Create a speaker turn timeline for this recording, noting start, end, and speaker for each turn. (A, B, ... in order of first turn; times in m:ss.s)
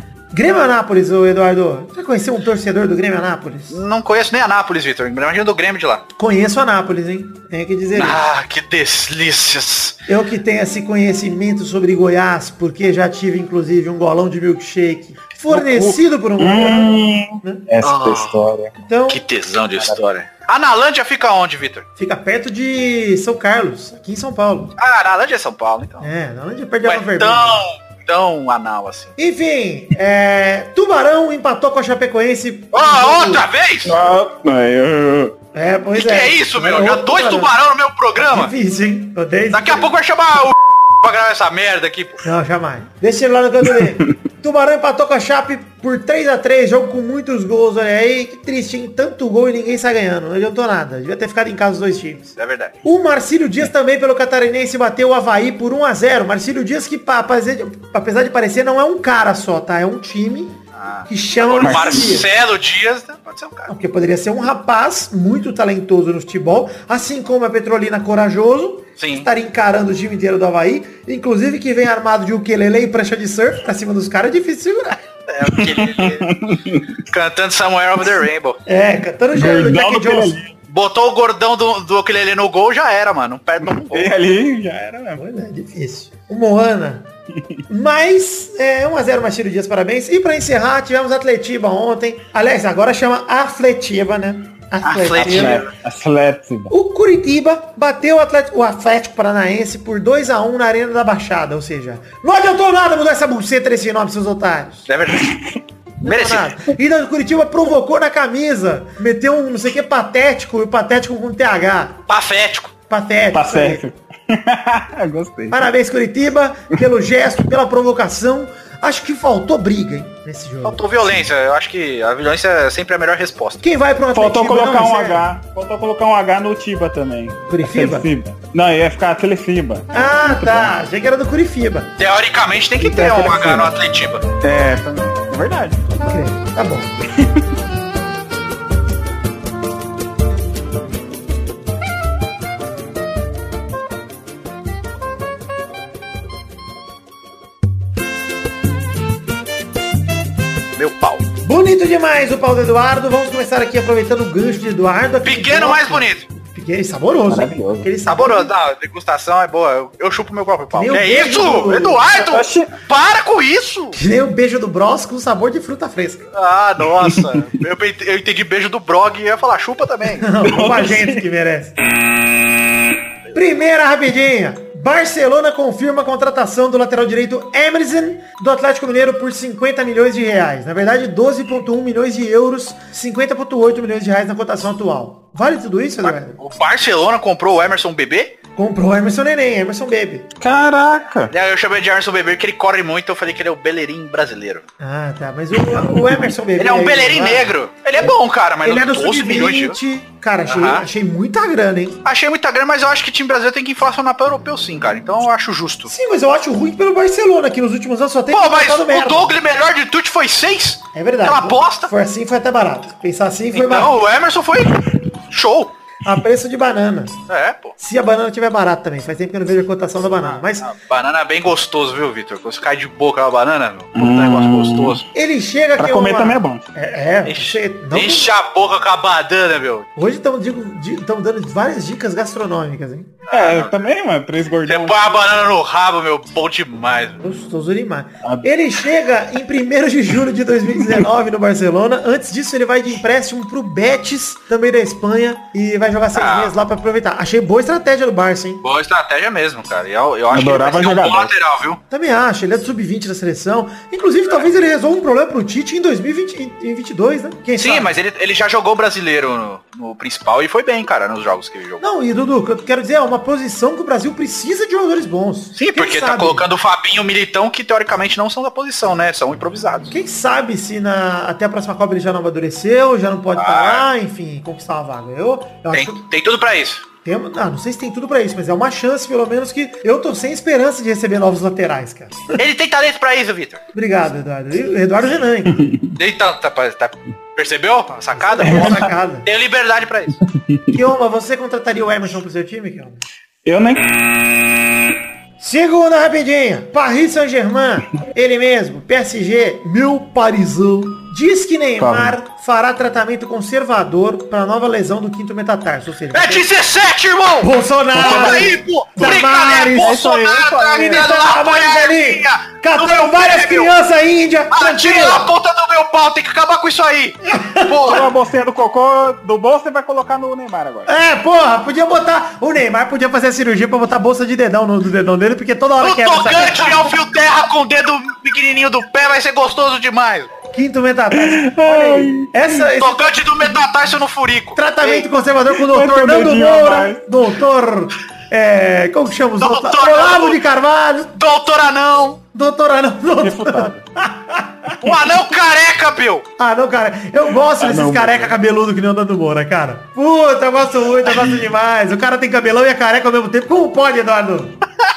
0:00.3-0:03.8 A
0:03.7-0:06.0 B
0:06.2-0:08.2 A
0:07.9-0:10.0 B
0:10.1-0:17.6 A
0:15.5-0:18.7 C
0:17.8-0:18.4 B
0:18.8-0:19.2 A
0:19.1-0:21.8 B
0:22.0-0:24.7 A
0:24.8-0:26.1 B
0:26.0-0:27.6 A
0:26.8-0:29.1 B
0:29.2-0:33.4 A
0:32.7-0:34.0 B
0:33.8-0:35.4 C
0:35.5-0:37.5 A
0:36.0-0:38.5 B
0:38.2-0:39.9 A
0:39.5-0:42.2 B
0:42.2-0:52.3 A
0:52.4-0:52.8 B
0:52.8-1:00.6 A
1:00.8-1:03.7 B
1:01.1-1:02.3 A
1:01.6-1:02.2 C
1:03.7-1:15.0 A
1:09.0-1:09.3 B
1:15.3-1:16.3 B
1:15.4-1:17.0 C
1:17.1-1:18.6 B
1:18.7-1:20.4 A
1:19.3-1:20.5 C
1:20.7-1:24.1 B
1:23.6-1:25.2 C
1:25.2-1:27.0 A
1:27.7-1:35.6 A
1:34.8-1:35.7 B
1:35.1-1:36.7 C
1:36.7-1:44.9 A
1:44.9-1:45.4 B
1:45.1-1:45.6 C
1:46.0-1:52.0 A
1:46.0-1:46.5 B
1:52.1-1:52.7 B
1:52.9-1:53.8 A
1:53.3-1:55.6 C
1:55.5-2:00.8 A
2:00.6-2:03.6 B
2:03.6-2:05.2 A
2:04.1-2:10.7 C
2:07.5-2:08.1 A
2:09.9-2:11.9 A
2:12.0-2:14.2 B
2:12.8-2:13.7 A
2:14.4-2:15.9 C
2:16.0-2:16.9 A
2:17.2-2:17.4 C
2:30.8-2:31.2 B
2:31.4-2:38.5 A
2:35.2-2:36.2 B
2:37.3-2:37.9 C
2:38.1-2:44.0 B
2:40.7-2:42.0 A
2:42.2-2:42.8 C
2:43.9-2:46.2 A
2:46.3-2:50.3 B
2:47.0-2:47.4 C
2:50.2-2:51.7 A
2:50.4-2:51.2 C
2:53.3-3:06.4 A
3:06.0-3:08.4 B
3:08.6-3:10.3 A
3:10.4-3:11.3 C
3:11.3-3:14.6 B
3:14.8-3:18.1 A
3:16.6-3:19.8 B
3:18.6-3:22.0 A
3:20.5-3:20.8 B
3:22.0-3:25.9 B
3:25.9-3:29.4 A
3:28.3-3:31.9 B
3:30.9-3:33.9 A
3:33.5-3:35.7 B
3:36.0-3:37.2 A
3:37.3-3:37.7 B
3:37.8-3:40.7 A
3:40.2-3:45.0 B
3:43.9-3:45.0 C
3:45.1-3:48.3 A
3:45.8-3:46.6 C
3:47.2-3:49.9 B
3:50.0-3:53.1 A
3:53.3-3:53.9 B
3:53.3-3:55.1 C
3:54.6-3:57.2 B
3:57.2-4:08.6 A
4:06.1-4:06.6 B
4:08.6-4:11.8 B
4:10.3-4:11.3 C
4:11.9-4:17.9 A
4:17.6-4:21.8 B
4:21.8-4:26.4 A
4:25.6-4:29.9 B
4:29.9-4:36.0 A
4:33.4-4:33.9 B
4:35.7-4:36.8 B
4:37.0-4:42.4 A
4:42.4-4:43.6 B
4:43.7-4:45.6 A
4:45.5-4:45.9 C
4:45.9-4:50.2 B
4:48.1-4:49.3 A
4:48.4-4:48.9 C
4:50.2-4:50.8 C
4:50.7-4:53.0 A
4:53.4-4:53.8 C
4:55.4-5:06.4 A
5:01.8-5:02.2 C
5:06.1-5:13.7 B
5:07.4-5:10.1 A
5:07.9-5:09.2 C
5:09.8-5:11.0 C
5:10.6-5:15.3 A
5:14.5-5:18.1 B
5:17.3-5:18.0 A
5:17.8-5:20.9 C
5:20.9-5:26.9 A
5:25.8-5:30.3 B
5:30.5-5:33.2 A
5:31.1-5:32.5 C
5:32.8-5:35.1 B
5:34.6-5:41.1 A
5:35.5-5:37.0 C
5:39.4-5:40.4 B
5:41.2-5:42.2 B
5:42.3-5:44.8 A
5:43.2-5:43.8 C
5:44.8-5:46.2 B
5:46.4-5:54.6 A
5:47.6-5:48.4 C